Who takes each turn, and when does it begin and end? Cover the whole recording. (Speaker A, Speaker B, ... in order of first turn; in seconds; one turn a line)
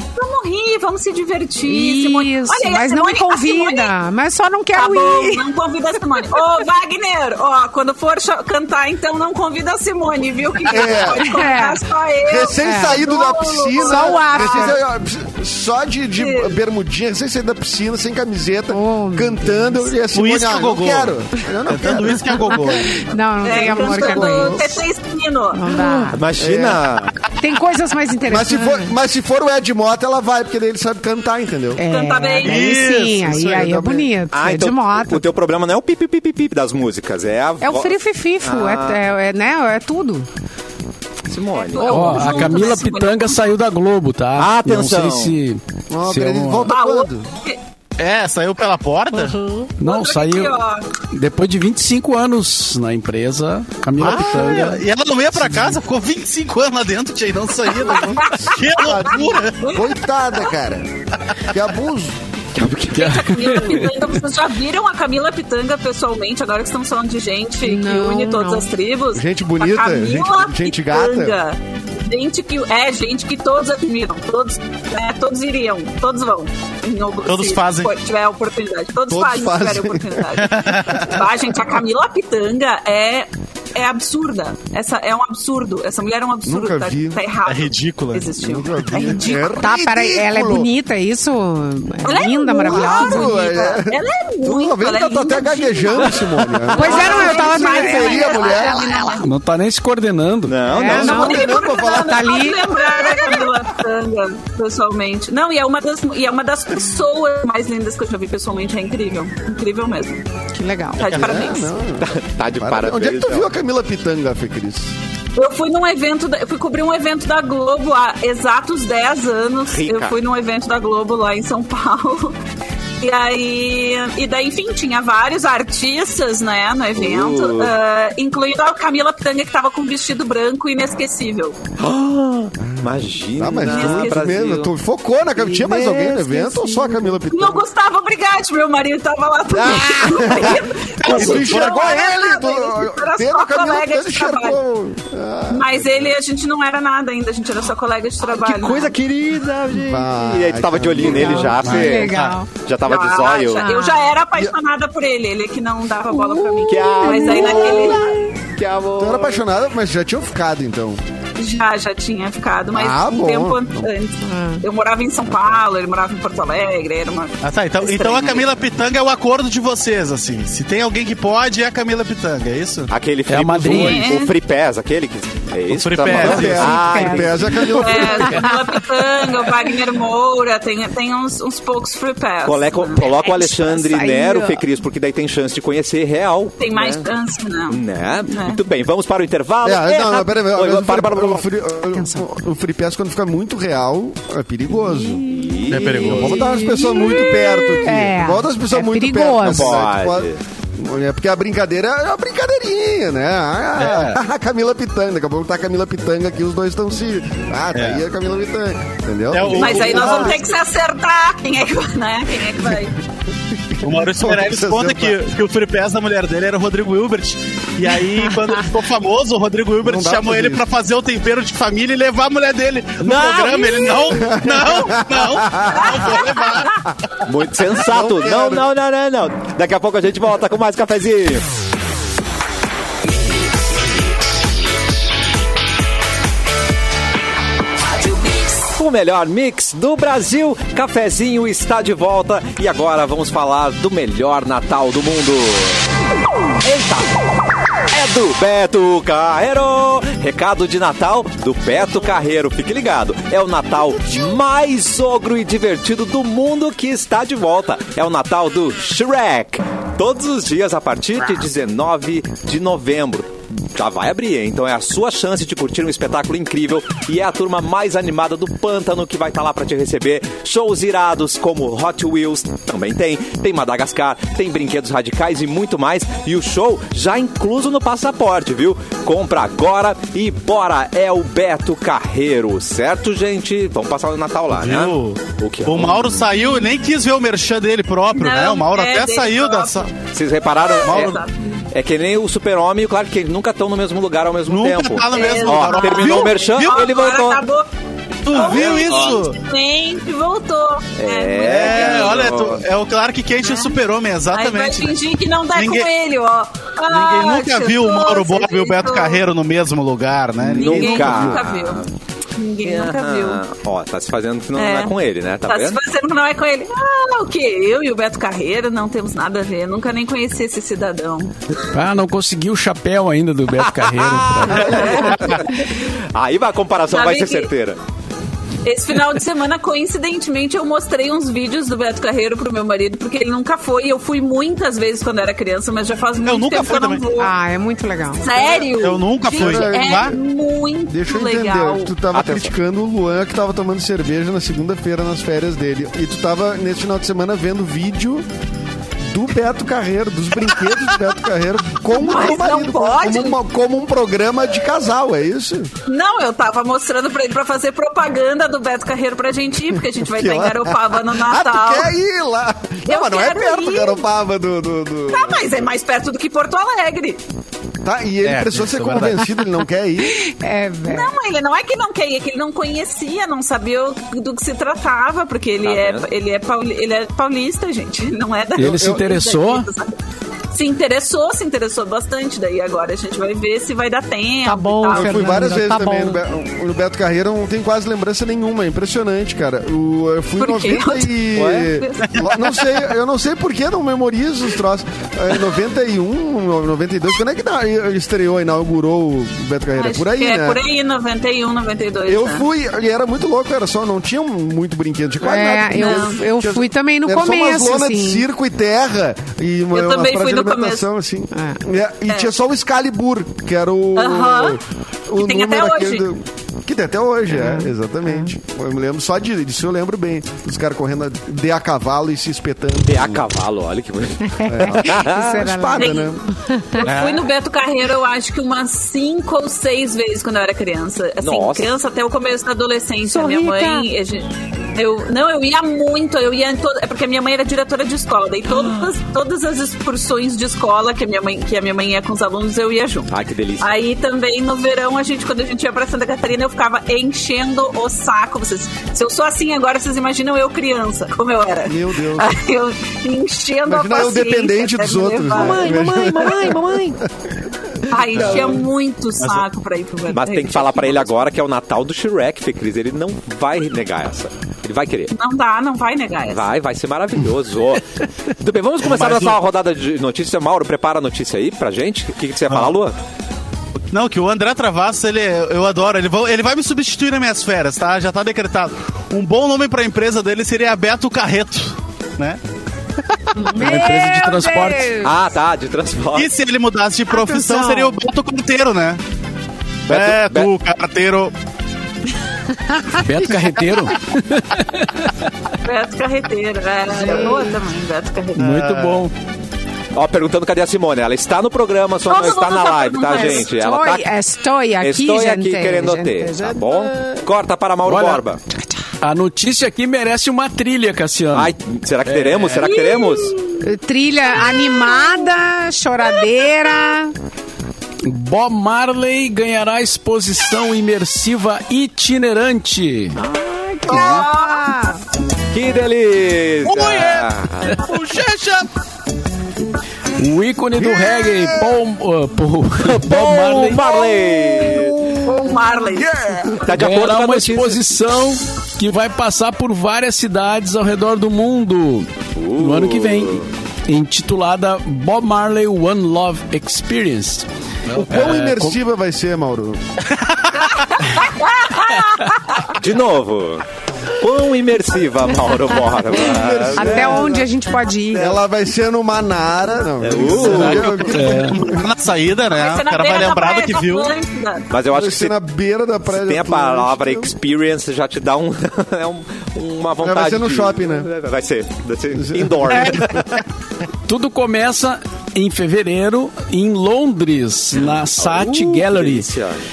Speaker A: 0.1-3.9
Speaker B: 1.6-5.5
Speaker A: 4.7-14.8
Speaker C: 10.7-11.3
Speaker B: 11.0-11.8
Speaker C: 12.2-22.8
Speaker B: 12.6-13.0
Speaker B: 13.7-14.8
Speaker A: 16.2-16.6
Speaker B: 18.7-19.9
Speaker D: 20.1-21.1
Speaker D: 21.7-22.9
Speaker B: 22.4-24.8
Speaker A: 23.4-25.8
Speaker C: 23.5-24.7
Speaker B: 25.5-26.2
Speaker E: 26.1-27.2
Speaker C: 26.4-26.8
Speaker B: 27.4-28.9
Speaker C: 28.2-31.8
Speaker B: 31.8-35.2
Speaker A: 31.8-32.8
Speaker D: 32.4-33.7
Speaker C: 33.2-34.1
Speaker E: 34.3-39.0
Speaker B: 37.6-40.3
Speaker E: 41.2-42.6
Speaker A: 41.5-43.5
Speaker F: 41.8-46.7
Speaker E: 44.4-45.4
Speaker C: 45.9-47.3
Speaker A: 46.7-47.6
Speaker D: 48.0-49.5
Speaker F: 49.8-50.6
Speaker A: 49.8-50.9
Speaker F: 51.1-54.8
Speaker D: 54.0-59.7
Speaker F: 55.3-55.8
Speaker A: 57.8-60.4
Speaker C: 57.9-62.2
Speaker E: 62.5-63.3
Speaker F: 62.9-64.1
Speaker A: 62.9-89.7
Speaker B: 67.6-68.7
Speaker C: 69.1-71.4
Speaker D: 77.2-77.9
Speaker C: 79.1-80.3
Speaker D: 80.4-81.2
Speaker C: 86.5-87.2
Speaker D: 87.4-88.3
Speaker C: 88.4-90.7
Speaker B: 89.6-93.4
Speaker A: 92.0-99.3
Speaker C: 92.6-98.9
Speaker B: 96.7-99.2
Speaker F: 99.2-100.6
Speaker E: 100.5-101.5
Speaker B: 100.7-102.8
Speaker C: 100.8-102.4
Speaker A: 100.9-110.2
Speaker B: 110.5-111.7
Speaker A: 111.0-111.7
Speaker C: 111.1-114.9
Speaker E: 112.0-113.5
Speaker A: 115.3-122.4
Speaker E: 119.7-120.1
Speaker A: 123.0-131.6
Speaker E: 127.0-127.7
Speaker E: 131.8-134.7
Speaker C: 132.6-137.7
Speaker A: 133.6-134.3
Speaker E: 135.4-136.4
Speaker A: 137.3-144.6
Speaker C: 139.5-146.1
Speaker D: 141.0-141.8
Speaker A: 145.5-149.0
Speaker E: 148.2-153.7
Speaker C: 149.7-151.7
Speaker B: 151.1-152.5
Speaker D: 151.6-152.4
Speaker A: 152.8-158.0
Speaker B: 153.6-154.1
Speaker B: 156.1-158.2
Speaker E: 156.7-159.4
Speaker C: 159.0-161.0
Speaker A: 161.4-168.4
Speaker C: 162.7-163.9
Speaker B: 164.2-164.6
Speaker D: 167.4-172.9
Speaker E: 172.9-177.7
Speaker F: 173.3-174.2
Speaker A: 173.6-174.3
Speaker D: 175.7-176.8
Speaker C: 176.1-178.5
Speaker B: 176.5-179.7
Speaker A: 177.7-183.4
Speaker E: 182.4-187.1
Speaker B: 183.4-184.6
Speaker A: 186.6-188.6
Speaker E: 187.7-191.4
Speaker C: 189.6-195.2
Speaker B: 191.9-192.2
Speaker B: 194.8-199.8
Speaker E: 195.2-196.1
Speaker D: 195.7-196.4
Speaker C: 195.8-210.5
Speaker E: 199.4-200.4
Speaker D: 203.8-204.2
Speaker D: 207.7-208.0
Speaker D: 209.3-210.4
Speaker A: 209.5-213.0
Speaker C: 213.5-215.2
Speaker D: 213.8-226.8
Speaker C: 219.8-220.6
Speaker C: 223.1-223.4
Speaker C: 224.1-225.9
Speaker A: 225.7-226.7
Speaker E: 227.2-231.4
Speaker C: 227.7-228.7
Speaker E: 238.7-245.9
Speaker E: 246.6-247.1
Speaker E: 247.9-286.4
Speaker D: 284.5-289.9
Speaker A: 288.1-289.9
Speaker E: 290.1-297.4
Speaker A: 290.6-291.3
Speaker D: 290.8-291.1
Speaker D: 294.5-296.8
Speaker A: 295.1-297.7
Speaker D: 298.2-299.4
Speaker A: 298.3-302.2
Speaker E: 298.3-299.2
Speaker E: 301.0-302.7
Speaker D: 301.4-305.0
Speaker A: 303.4-303.8
Speaker A: 304.3-309.2
Speaker D: 305.5-305.9
Speaker D: 306.9-311.3
Speaker E: 310.4-311.9
Speaker A: 310.5-311.8
Speaker A: 312.4-313.4
Speaker E: 312.6-315.8
Speaker A: 314.6-314.9
Speaker A: 315.5-321.3
Speaker F: 321.7-324.9
Speaker E: 323.6-327.8
Speaker A: 324.5-325.6
Speaker A: 326.9-327.5
Speaker A: 328.6-337.3
Speaker D: 336.2-337.0
Speaker B: 337.2-338.7
Speaker A: 338.2-341.9
Speaker D: 338.8-340.1
Speaker C: 339.3-340.2
Speaker C: 340.9-348.2
Speaker E: 342.1-342.5
Speaker C: 349.1-355.7
Speaker A: 351.9-353.4
Speaker A: 355.9-361.9
Speaker C: 360.0-365.7
Speaker A: 362.9-364.0
Speaker A: 365.1-367.2
Speaker C: 367.8-370.2
Speaker D: 368.2-369.2
Speaker B: 370.1-371.1
Speaker A: 370.9-379.9
Speaker E: 375.6-376.1
Speaker F: 378.6-379.7
Speaker C: 378.6-379.0
Speaker A: 380.5-385.3
Speaker B: 384.4-386.2
Speaker C: 384.9-400.6
Speaker A: 390.4-392.3
Speaker E: 391.3-391.7
Speaker A: 399.7-402.4
Speaker C: 402.1-423.2
Speaker B: 405.2-408.2
Speaker A: 405.7-406.2
Speaker A: 409.7-410.9
Speaker B: 411.3-411.6
Speaker A: 413.9-414.6
Speaker A: 415.1-416.1
Speaker B: 417.3-418.3
Speaker E: 422.9-425.3
Speaker B: 424.3-426.9
Speaker C: 424.4-426.2
Speaker A: 425.7-426.1
Speaker A: 426.8-456.5
Speaker D: 426.8-427.2
Speaker E: 431.2-431.7
Speaker B: 433.1-433.9
Speaker E: 443.1-443.7
Speaker C: 451.6-452.3
Speaker C: 453.6-457.1
Speaker A: 457.9-461.1
Speaker D: 458.1-458.6
Speaker D: 459.2-459.4
Speaker E: 460.1-465.1
Speaker A: 465.1-466.5
Speaker E: 466.3-472.9
Speaker D: 468.8-469.4
Speaker D: 472.5-472.7
Speaker D: 473.9-482.4
Speaker B: 483.4-485.1
Speaker F: 483.5-484.9
Speaker E: 485.0-486.3
Speaker D: 486.1-489.0
Speaker B: 487.1-487.9
Speaker D: 489.9-491.3
Speaker E: 489.9-490.5
Speaker B: 492.7-493.0
Speaker F: 492.9-495.2
Speaker A: 495.6-498.5
Speaker B: 496.9-497.5
Speaker F: 498.4-499.1
Speaker D: 498.4-499.1
Speaker E: 499.9-504.1
Speaker A: 502.1-503.5
Speaker B: 503.1-507.2
Speaker E: 504.8-508.4
Speaker F: 507.8-508.2
Speaker F: 509.0-511.5
Speaker E: 511.3-513.4
Speaker F: 512.0-512.7
Speaker A: 512.6-513.4
Speaker B: 513.6-517.1
Speaker F: 518.0-523.2
Speaker E: 523.2-524.2
Speaker B: 523.7-525.0
Speaker A: 523.9-524.7
Speaker E: 525.5-527.8
Speaker D: 526.6-528.7
Speaker F: 530.1-533.8
Speaker C: 530.8-531.7
Speaker E: 532.8-535.0
Speaker A: 534.3-536.3
Speaker C: 535.9-536.6
Speaker E: 536.6-537.8
Speaker F: 536.7-548.8
Speaker E: 542.3-543.5
Speaker C: 547.9-549.8
Speaker D: 550.1-550.8
Speaker A: 550.6-552.5
Speaker E: 552.7-553.6
Speaker E: 554.2-557.3
Speaker C: 556.1-557.5
Speaker B: 556.7-558.4
Speaker C: 558.1-561.9
Speaker E: 560.0-561.1
Speaker D: 560.4-564.1
Speaker F: 560.5-561.6
Speaker A: 562.5-564.7
Speaker E: 564.7-565.3
Speaker C: 564.9-567.3
Speaker E: 566.1-573.4
Speaker C: 570.0-571.1
Speaker C: 572.1-573.2
Speaker F: 574.1-579.3
Speaker E: 577.9-579.6